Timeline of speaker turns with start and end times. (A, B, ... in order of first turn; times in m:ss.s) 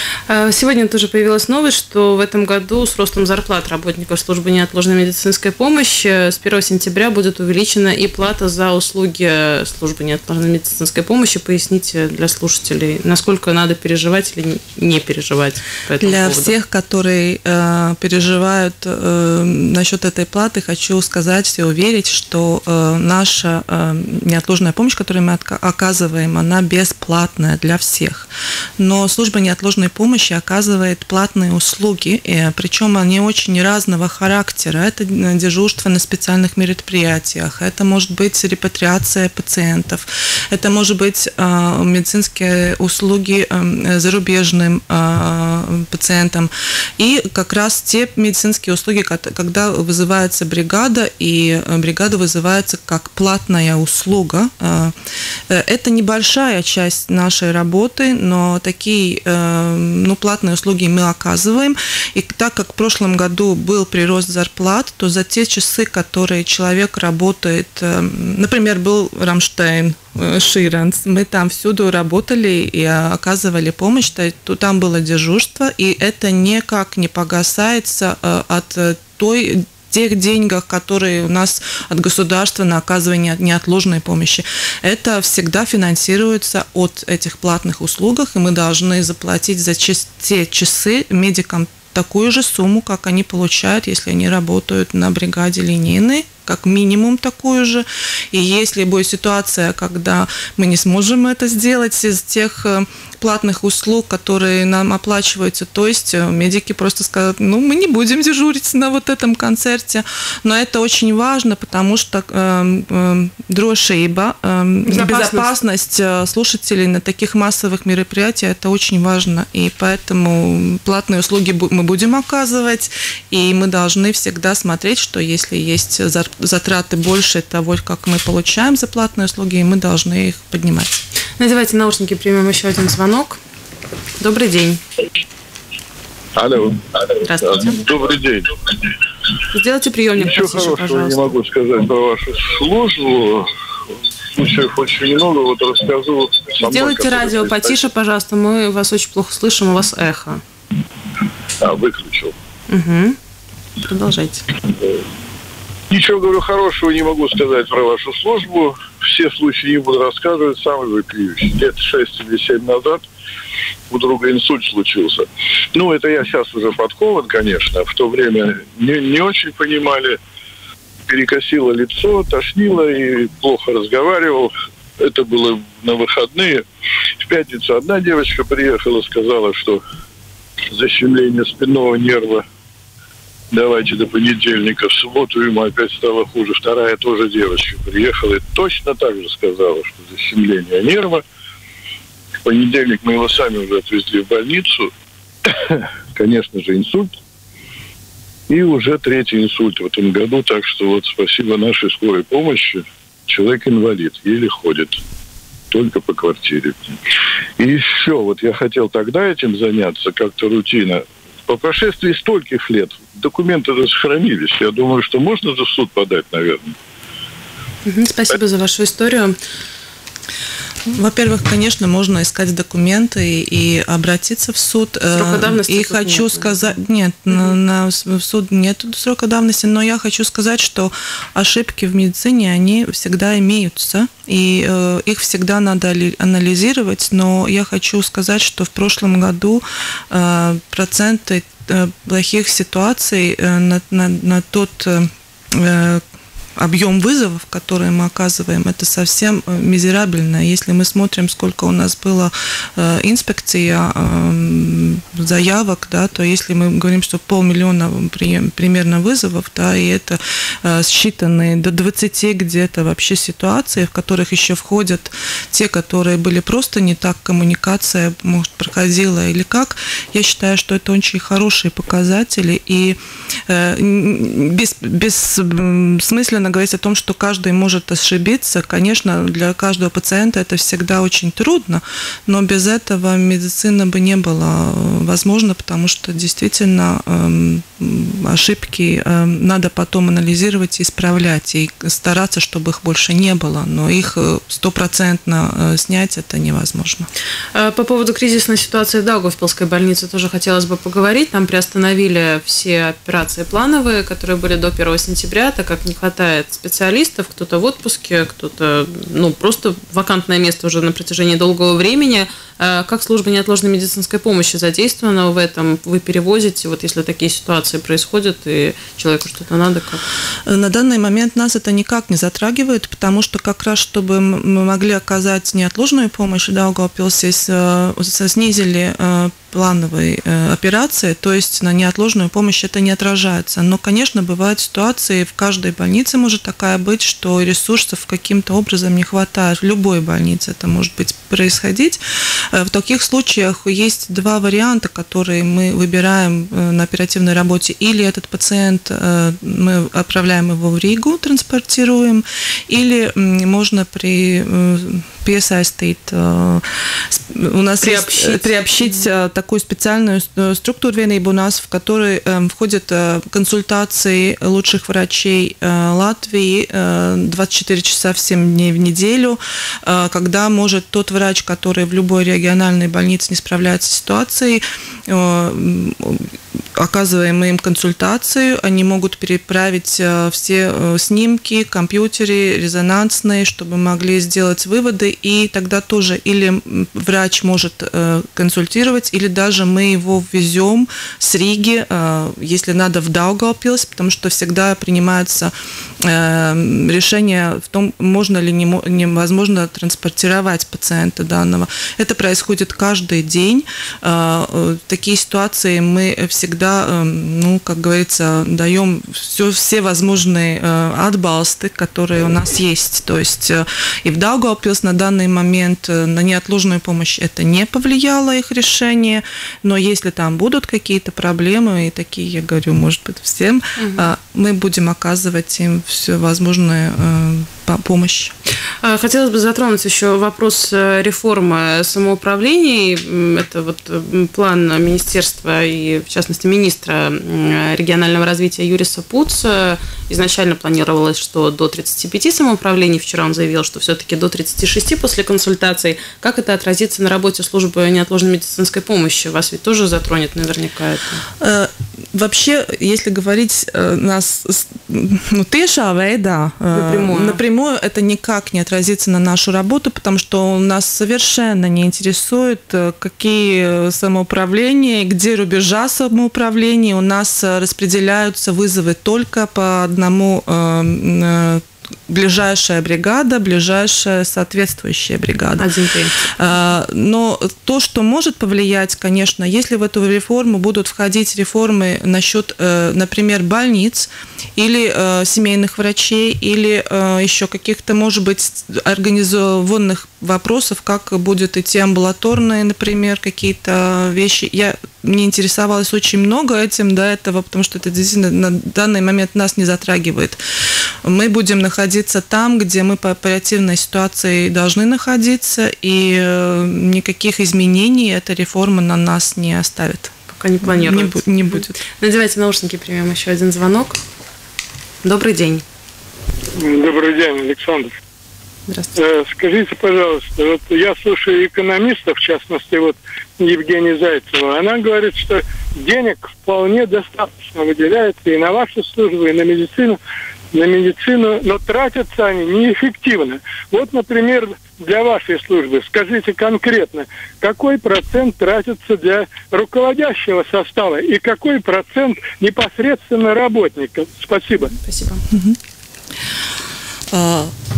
0:00.3-0:16.5 A
0:16.0-0:54.9 B
0:55.5-2:11.0 B
1:54.9-1:55.5 A
2:11.4-2:13.4 A
2:14.2-2:14.8 A
2:16.4-2:18.9 C
2:17.2-2:17.8 A
2:19.5-2:21.4 A
2:20.2-2:23.5 C
2:24.3-2:27.8 C
2:26.6-2:30.4 A
2:31.6-2:32.3 C
2:32.7-2:33.2 A
2:33.8-2:34.5 A
2:35.9-2:43.0 C
2:43.9-2:50.2 C
2:51.1-2:56.6 C
2:57.2-2:59.8 C
3:00.7-3:02.4 C
3:03.5-3:11.2 C
3:12.4-3:14.9 C
3:15.5-3:17.2 C
3:18.5-3:25.0 C
3:25.7-3:27.0 C
3:27.6-3:36.8 C
3:37.8-3:39.4 A
3:40.9-4:06.0 B
3:45.1-3:46.5 A
4:06.6-4:33.0 B
4:33.5-4:57.1 B
4:57.5-5:20.0 A
5:20.5-7:08.3 B
5:57.8-5:58.9 A
7:03.8-7:04.1 A
7:08.8-7:31.2 A
7:31.4-7:55.7 B
7:36.7-7:37.4 A
7:55.6-7:56.3 A
7:56.4-8:20.4 B
8:21.0-8:31.8 B
8:30.3-8:31.2 A
8:31.8-8:34.0 A
8:35.0-8:35.6 A
8:36.6-8:37.9 D
8:38.7-8:38.9 A
8:39.0-8:50.0 D
8:50.5-9:04.7 D
9:04.8-9:05.2 A
9:05.3-9:05.6 B
9:07.1-9:07.5 B